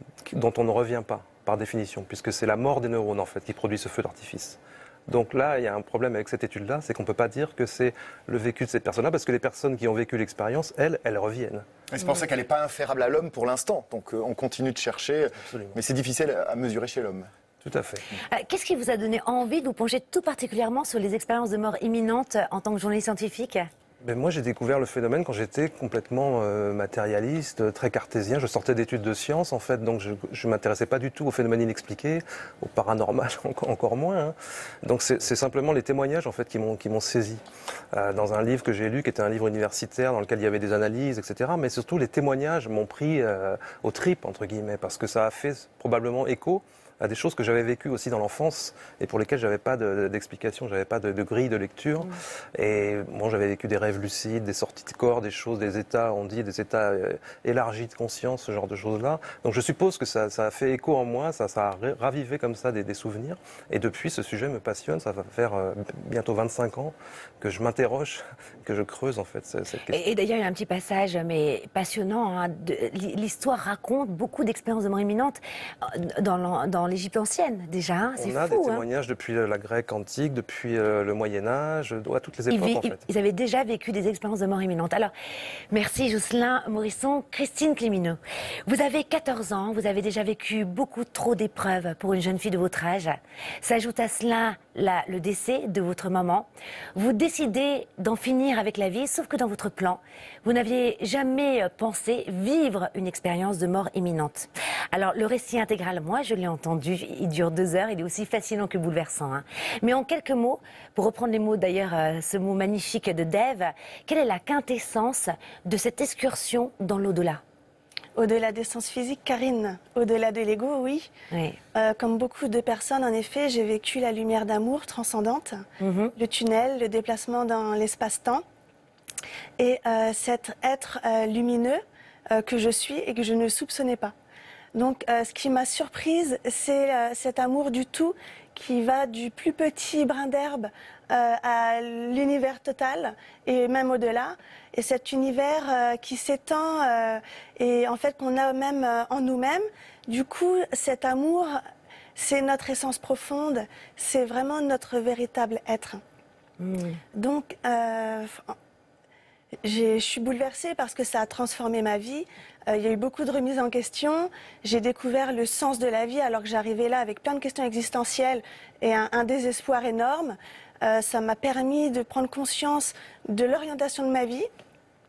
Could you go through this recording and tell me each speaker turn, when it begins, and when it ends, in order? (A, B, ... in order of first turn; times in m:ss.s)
0:00.2-0:11.7 A
0:11.9-0:17.3 B
0:17.6-0:18.0 A
0:18.3-0:23.7 C
0:24.0-0:37.4 A
0:37.9-1:10.0 A
1:09.9-1:18.8 C
1:18.2-1:23.0 A
1:22.5-1:25.1 C
1:25.7-1:57.4 C
1:58.2-2:01.1 D
2:01.3-2:01.6 C
2:01.7-2:05.6 D
2:05.8-2:06.1 C
2:06.2-2:08.4 D
2:09.6-2:14.1 D
2:14.7-2:31.6 D
2:32.2-2:36.0 D
2:36.6-2:37.0 C
2:37.2-2:38.6 D
2:39.6-2:54.5 D